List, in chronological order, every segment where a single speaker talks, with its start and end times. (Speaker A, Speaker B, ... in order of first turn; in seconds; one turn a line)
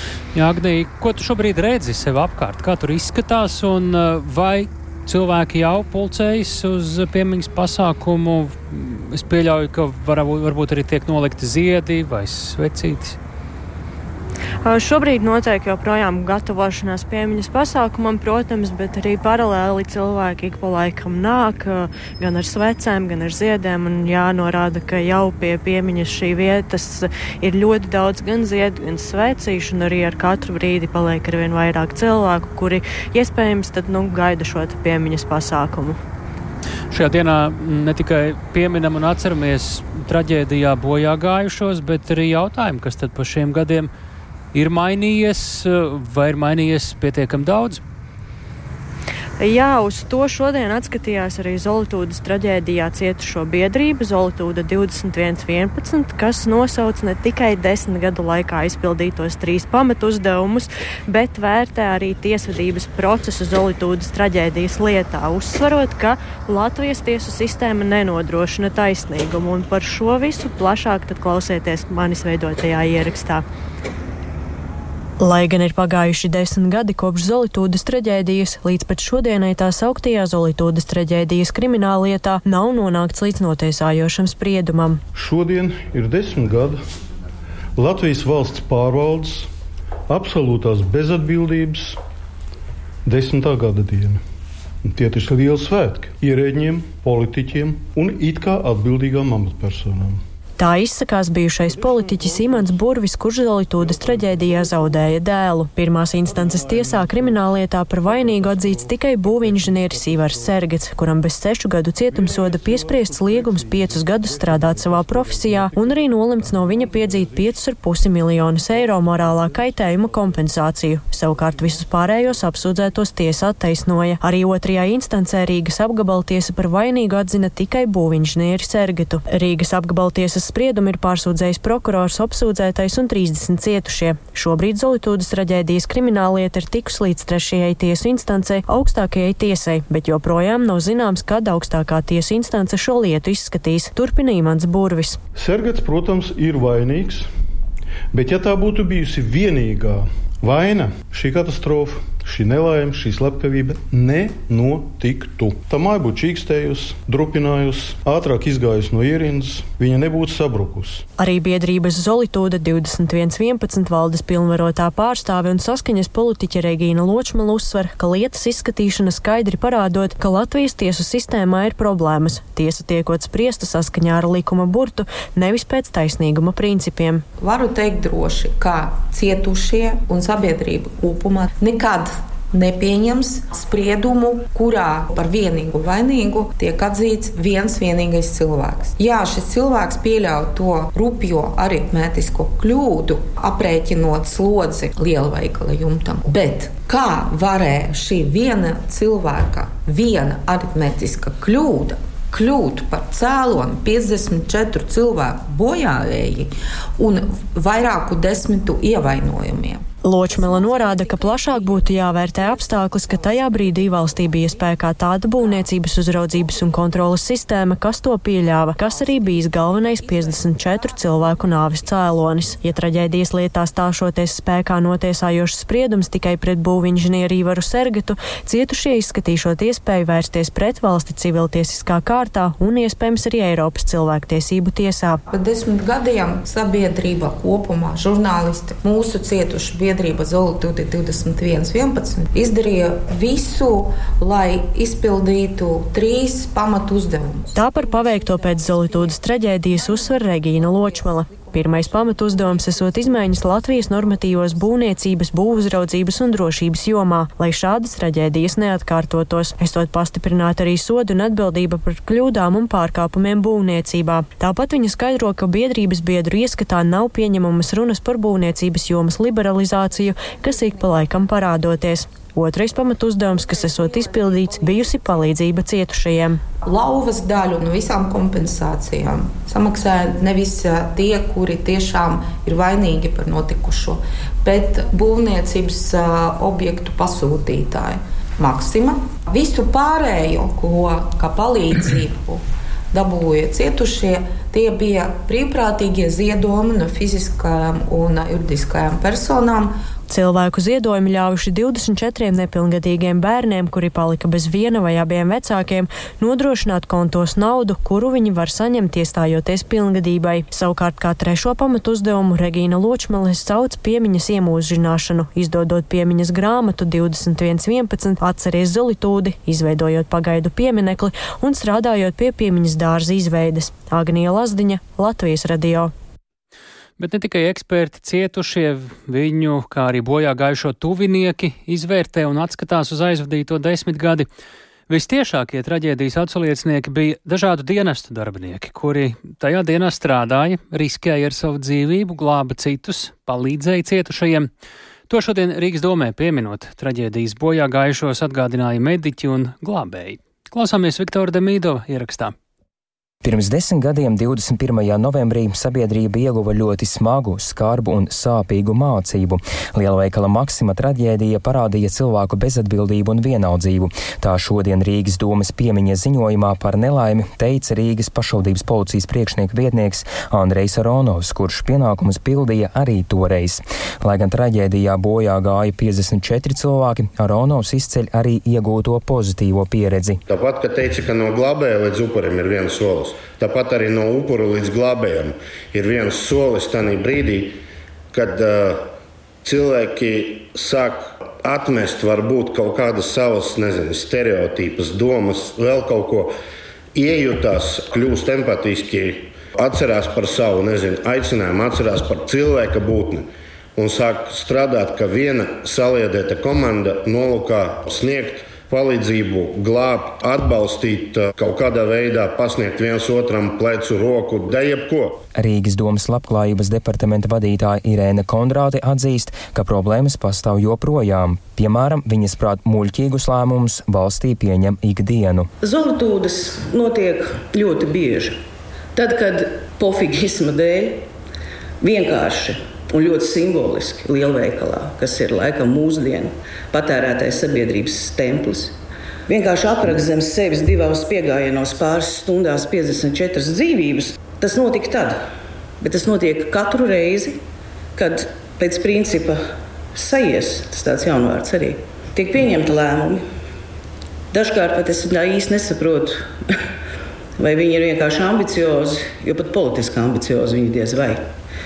Speaker A: 0.3-13.2
Speaker B: 14.6-36.0
Speaker A: 36.9-43.9
Speaker A: 44.5-47.8
Speaker B: 49.4-73.4
Speaker C: 75.2-85.0
Speaker D: 85.1-86.8
Speaker D: 87.8-89.5
Speaker D: 90.1-92.0
Speaker D: 93.0-94.2
Speaker D: 94.8-100.2
Speaker C: 100.6-145.2
Speaker D: 101.7-102.8
Speaker D: 103.8-105.2
Speaker D: 106.1-110.7
Speaker D: 112.1-117.6
Speaker D: 118.5-120.6
Speaker D: 121.3-122.4
Speaker D: 145.3-147.3
Speaker D: 148.1-161.1
Speaker C: 161.2-177.2
Speaker E: 177.4-214.6
Speaker C: 210.0-235.2
Speaker E: 218.8-221.0
Speaker E: 235.3-249.2
Speaker C: 247.5-276.4
Speaker E: 249.7-254.7
Speaker E: 274.2-274.6
Speaker E: 276.6-299.8
Speaker C: 300.1-325.9
Speaker A: 327.0-334.3
Speaker A: 334.9-344.5
Speaker A: 345.1-352.3
Speaker F: 353.2-380.2
Speaker G: 380.3-387.6
Speaker G: 388.1-388.9
Speaker G: 389.4-396.3
Speaker G: 396.9-415.2
Speaker F: 415.4-425.5
Speaker H: 425.6-428.4
Speaker H: 428.9-431.1
Speaker H: 431.8-438.8
Speaker H: 439.3-445.2
Speaker H: 445.8-447.4
Speaker H: 447.9-453.2
Speaker H: 454.3-456.3
Speaker H: 457.4-461.3